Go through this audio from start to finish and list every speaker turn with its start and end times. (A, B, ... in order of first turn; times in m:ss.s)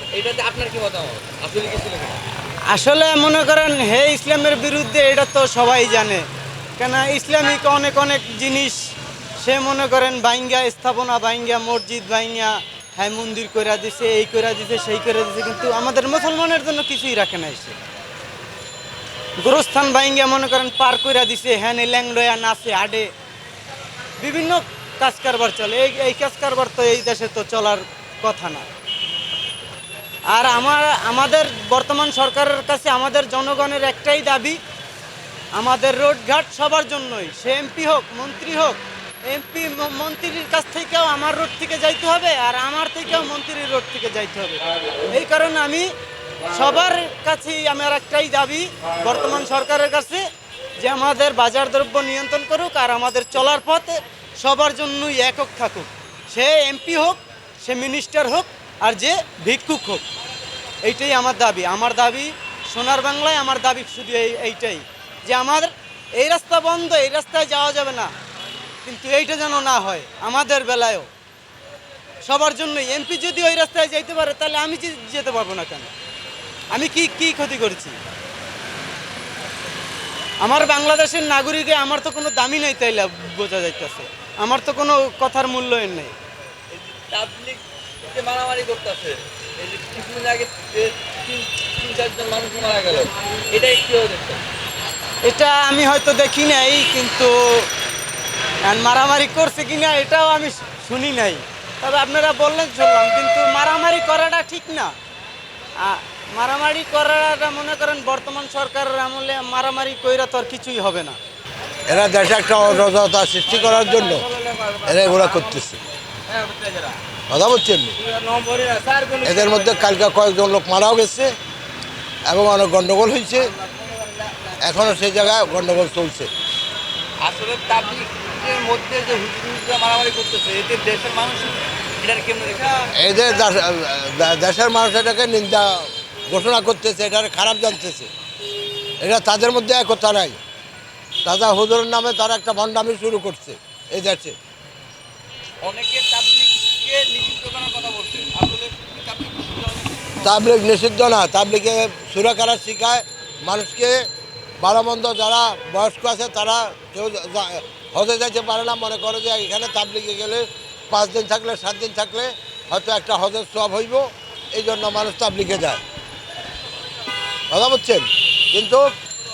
0:00.1-0:02.2 A
0:02.7-0:06.2 B
0:06.8-0:08.8 B
0:09.4-0:17.8 B
0:19.4-0:23.1 B
0:24.2-0:28.7 B
0:30.3-0:34.6 B
0:35.5-0:45.9 B
0:46.5-0:50.2 B
0:50.8-1:00.0 B
1:00.8-1:08.1 B
1:08.8-1:11.1 B
1:12.2-1:15.9 B
1:16.7-1:18.0 B
1:20.4-1:26.1 B
1:26.7-1:34.4 A
1:35.2-1:37.7 B
1:38.6-1:44.9 B
1:45.8-1:51.2 B
1:51.9-1:54.3 C
1:54.4-1:55.4 A
1:54.8-1:55.8 C
1:56.3-1:57.0 A
1:57.3-1:58.0 C
1:58.2-1:59.8 A
1:59.2-2:01.3 C
2:02.2-2:03.5 C
2:04.6-2:06.3 C
2:07.2-2:12.9 A
2:13.0-2:18.1 C
2:19.0-2:20.4 C
2:21.2-2:24.4 C
2:25.6-2:30.4 A
2:30.2-2:45.8 C
2:47.5-2:48.9 C